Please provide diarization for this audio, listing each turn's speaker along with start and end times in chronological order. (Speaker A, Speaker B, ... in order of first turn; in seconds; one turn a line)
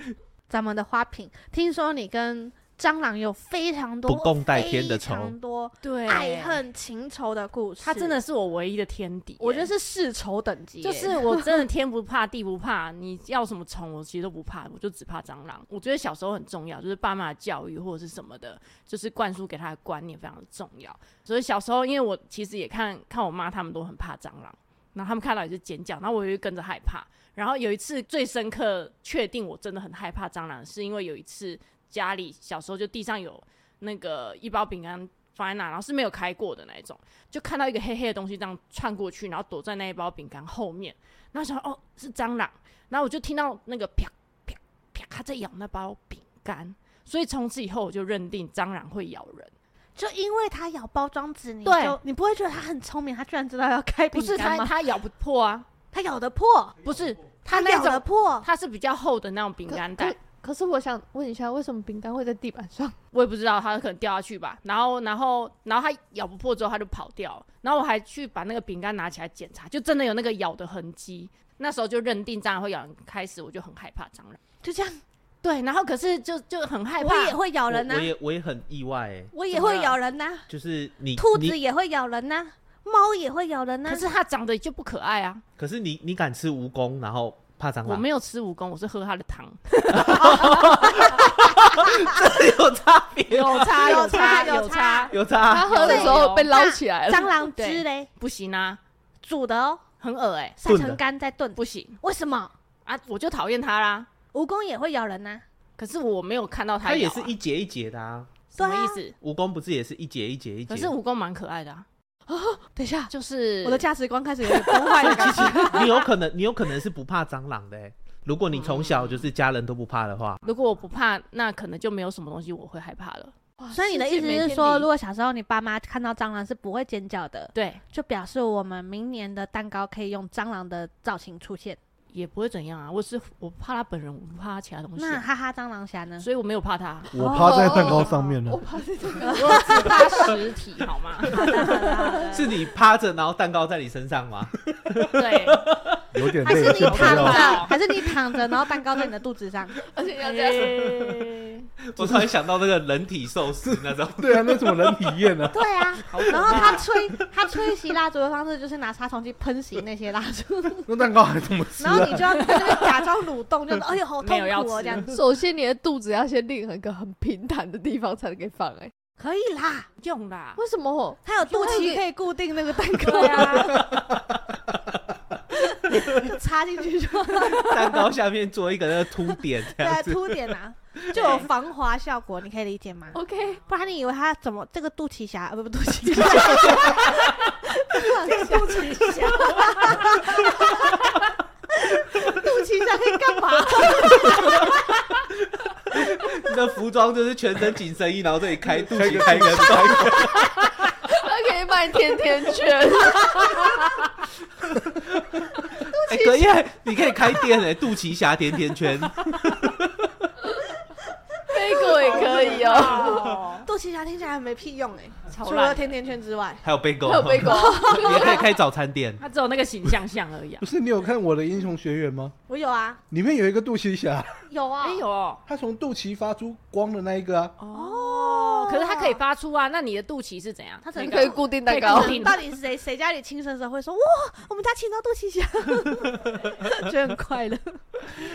Speaker A: 0.5-8.2
Speaker B: 4.1-5.3
Speaker C: 5.8-6.6
Speaker C: 7.8-9.7
Speaker A: 9.4-11.4
Speaker C: 10.8-49.5
Speaker A: 50.0-54.8
Speaker C: 51.6-52.0
Speaker C: 54.1-55.7
Speaker A: 55.9-56.8
Speaker C: 56.8-60.1
Speaker A: 57.4-58.5
Speaker D: 59.7-63.0
Speaker C: 63.1-74.4
Speaker A: 74.6-75.0
Speaker C: 75.4-77.4
Speaker A: 77.0-78.1
Speaker B: 77.7-79.3
Speaker A: 79.3-80.5
Speaker C: 79.5-80.0
Speaker B: 80.5-81.5
Speaker A: 81.2-84.1
Speaker C: 83.9-85.4
Speaker B: 85.6-88.0
Speaker C: 87.8-91.3
Speaker B: 89.9-94.4
Speaker A: 90.4-90.8
Speaker C: 93.3-96.5
Speaker A: 93.7-95.1
Speaker B: 95.1-95.8
Speaker D: 95.5-97.4
Speaker A: 95.7-98.1
Speaker C: 97.5-98.8
Speaker A: 99.2-99.8
Speaker C: 100.0-100.6
Speaker A: 100.6-102.5
Speaker C: 101.5-102.0
Speaker C: 102.8-104.1
Speaker A: 104.3-105.4
Speaker C: 105.8-107.3
Speaker B: 106.8-108.3
Speaker C: 108.5-109.1
Speaker A: 108.6-109.0
Speaker B: 109.2-110.9
Speaker C: 110.7-111.8
Speaker A: 112.3-113.1
Speaker C: 113.1-113.9
Speaker A: 113.6-116.0
Speaker C: 114.6-116.0
Speaker B: 115.0-120.4
Speaker C: 118.5-119.2
Speaker C: 120.4-123.4
Speaker D: 123.6-124.8
Speaker A: 123.7-131.8
Speaker C: 124.1-124.8
Speaker C: 127.5-127.8
Speaker C: 132.1-135.2
Speaker A: 134.9-136.3
Speaker C: 136.2-137.1
Speaker E: 137.1-138.6
Speaker A: 137.2-138.2
Speaker D: 137.2-140.1
Speaker A: 139.2-140.3
Speaker C: 139.3-142.4
Speaker A: 141.3-142.5
Speaker D: 141.9-142.3
Speaker B: 142.3-146.0
Speaker C: 145.1-145.7
Speaker E: 146.1-147.7
Speaker A: 146.4-149.8
Speaker C: 146.6-147.7
Speaker D: 149.9-151.0
Speaker C: 150.2-151.7
Speaker B: 151.9-155.1
Speaker E: 152.0-152.3
Speaker E: 153.6-156.8
Speaker A: 155.5-160.9
Speaker C: 156.1-156.8
Speaker E: 160.9-162.6
Speaker A: 161.8-165.2
Speaker C: 164.2-165.1
Speaker D: 165.1-168.9
Speaker A: 169.2-169.9
Speaker C: 170.0-170.6
Speaker D: 170.6-172.0
Speaker A: 171.2-173.9
Speaker C: 173.0-173.9
Speaker A: 175.7-178.1
Speaker B: 177.6-180.6
Speaker A: 179.7-191.1
Speaker C: 181.1-181.5
Speaker D: 183.1-183.6
Speaker C: 186.5-187.2
Speaker C: 188.0-190.2
Speaker A: 191.8-194.7
Speaker B: 195.9-200.4
Speaker E: 198.7-200.4
Speaker D: 201.1-203.7
Speaker A: 205.9-206.5
Speaker B: 205.9-210.1
Speaker D: 211.5-213.3
Speaker A: 211.6-216.6
Speaker C: 212.1-213.7
Speaker C: 215.3-215.9
Speaker B: 216.6-219.2
Speaker D: 217.0-218.4
Speaker A: 217.4-218.4
Speaker C: 219.2-220.7
Speaker E: 220.6-222.3
Speaker A: 222.5-223.0
Speaker E: 223.1-224.4
Speaker A: 224.5-225.0
Speaker C: 224.8-225.4
Speaker E: 225.4-227.5
Speaker C: 227.6-232.4
Speaker A: 227.7-229.2
Speaker A: 230.8-237.8
Speaker D: 231.0-232.3